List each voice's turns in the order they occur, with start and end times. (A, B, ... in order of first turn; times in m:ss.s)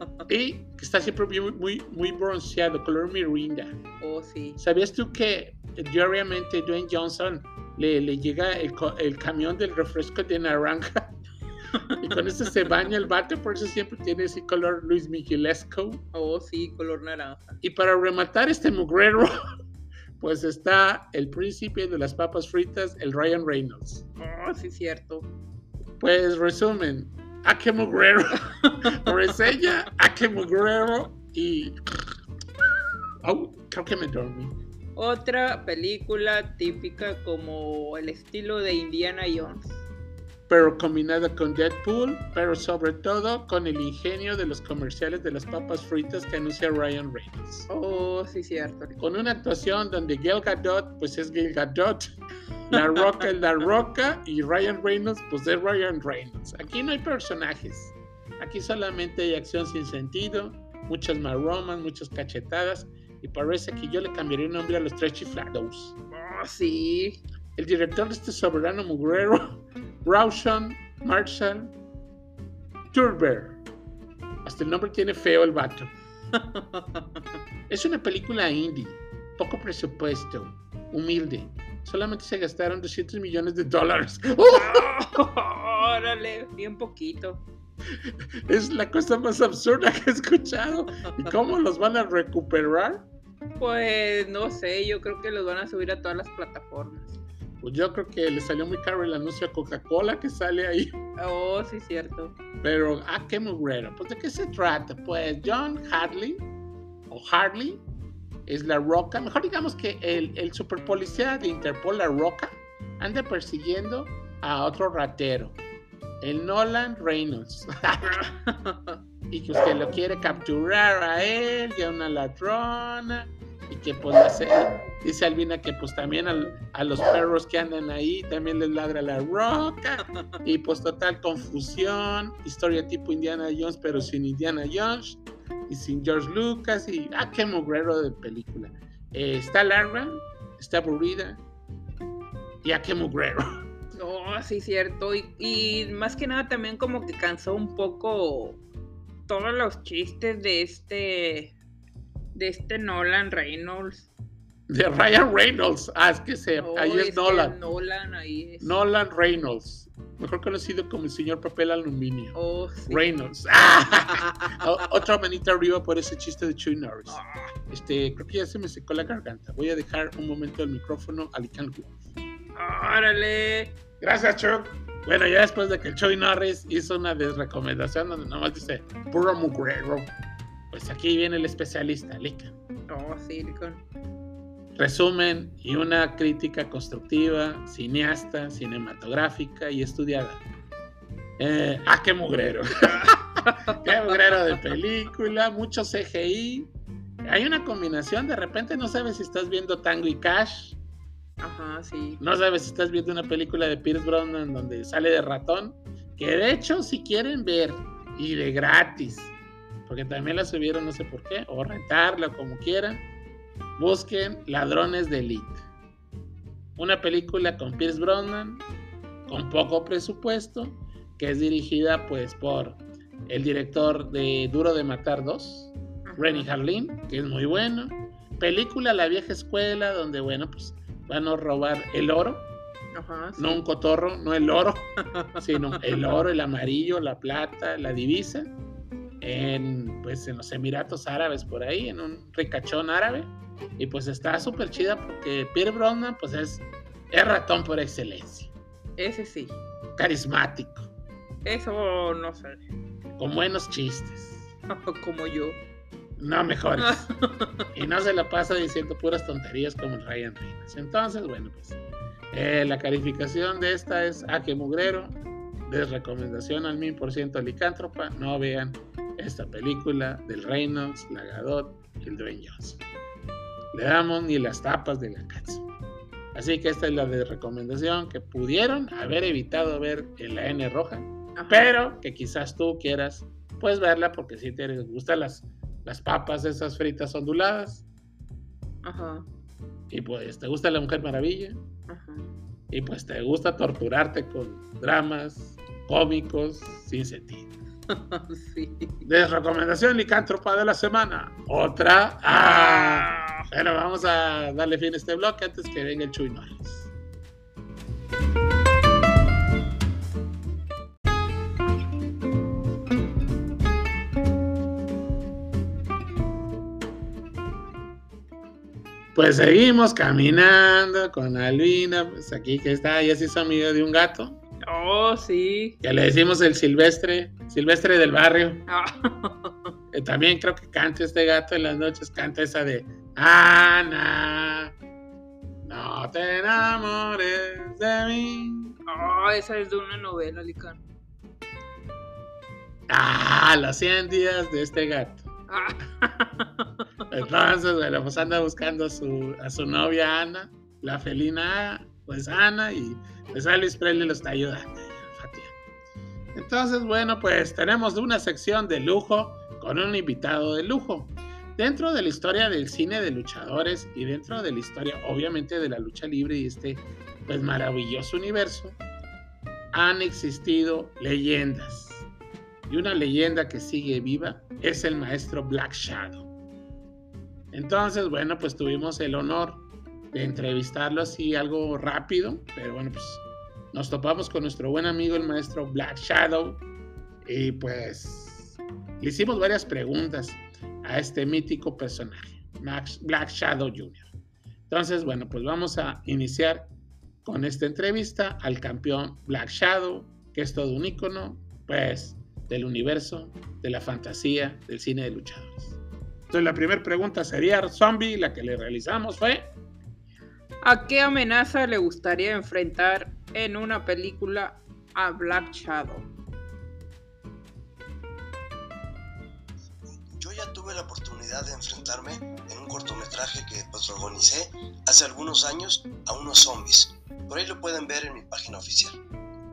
0:00.3-0:03.8 A
0:04.0-0:04.6 B
0:04.6-0:11.2 A
0:12.0-0:16.0 A
0:16.1-0:17.6 B
0:17.6-0:19.4 A
0:20.2-0:24.0 A
0:24.2-0:25.3 B
0:26.0-0:32.1 A
0:28.6-0:29.1 B
0:33.2-0:34.6 A
0:35.0-0:39.8 B
0:40.5-0:47.7 A
0:47.7-0:49.0 B
0:49.0-0:52.2 A
0:52.7-1:06.0 A
0:52.7-0:53.0 B
1:06.1-1:07.2 B
1:07.6-1:11.8 A
1:12.9-1:13.6 A
1:14.4-1:15.9 A
1:16.4-1:17.1 B
1:17.7-1:24.9 A
1:24.5-1:27.4 B
1:28.0-1:33.0 A
1:33.6-1:37.2 B
1:37.6-1:41.0 A
1:41.2-1:42.4 B
1:42.6-1:46.5 A
1:47.1-1:47.8 A
1:48.5-1:55.6 A
1:56.2-1:58.2 A
1:58.0-1:59.0 B
1:59.3-2:21.4 A
2:22.6-2:23.5 A
2:24.0-2:28.6 B
2:29.3-2:31.6 B
2:32.3-2:34.1 B
2:34.7-2:37.6 A
2:36.6-2:38.8 B
2:38.6-2:42.4 A
2:42.4-2:43.0 B
2:42.9-2:52.0 A
2:44.3-2:44.5 B
2:47.1-2:47.5 B
2:52.6-2:53.7 B
2:54.0-3:00.2 A
3:00.7-3:02.6 A
3:02.9-3:03.8 B
3:04.8-3:10.4 A
3:11.4-3:13.1 A
3:12.9-3:13.8 B
3:13.7-3:16.7 A
3:17.2-3:20.8 A
3:21.4-3:22.2 B
3:22.2-3:29.3 A
3:29.9-3:33.1 A
3:33.8-3:35.6 A
3:36.8-3:38.6 A
3:39.3-3:52.5 A
3:46.1-3:46.5 B
3:52.9-3:53.6 B
3:53.4-3:58.5 A
3:55.0-3:55.9 B
3:59.2-4:08.5 A
4:09.0-4:09.6 B
4:10.0-4:10.9 A
4:11.4-4:12.6 B
4:13.2-4:14.5 A
4:14.7-4:15.6 B
4:16.2-4:17.1 A
4:16.8-4:17.6 B
4:17.7-4:21.8 A
4:22.3-4:32.8 A
4:33.7-4:35.7 A
4:36.3-4:47.9 A
4:41.4-4:41.7 B
4:48.8-4:49.3 B
4:49.9-4:51.6 A
4:51.9-4:52.3 B
4:52.7-4:57.5 A
4:57.9-4:59.1 B
4:59.0-5:06.9 A
5:02.4-5:03.5 B
5:19.2-5:24.4 A
5:24.6-5:25.8 B
5:25.8-5:28.6 A
5:28.7-5:29.6 B
5:29.9-5:34.8 A
5:35.6-5:38.8 A
5:38.9-5:40.8 B
5:42.9-5:45.2 A
5:45.5-5:46.7 B
5:47.1-5:55.6 A
5:56.4-6:08.8 A
6:09.7-6:12.1 A
6:12.7-6:16.3 A
6:17.5-6:26.6 A
6:27.2-6:34.1 A
6:34.7-6:36.7 A
6:37.2-6:45.8 A
6:46.3-6:49.5 A
6:50.6-6:56.1 B
7:00.1-7:09.0 C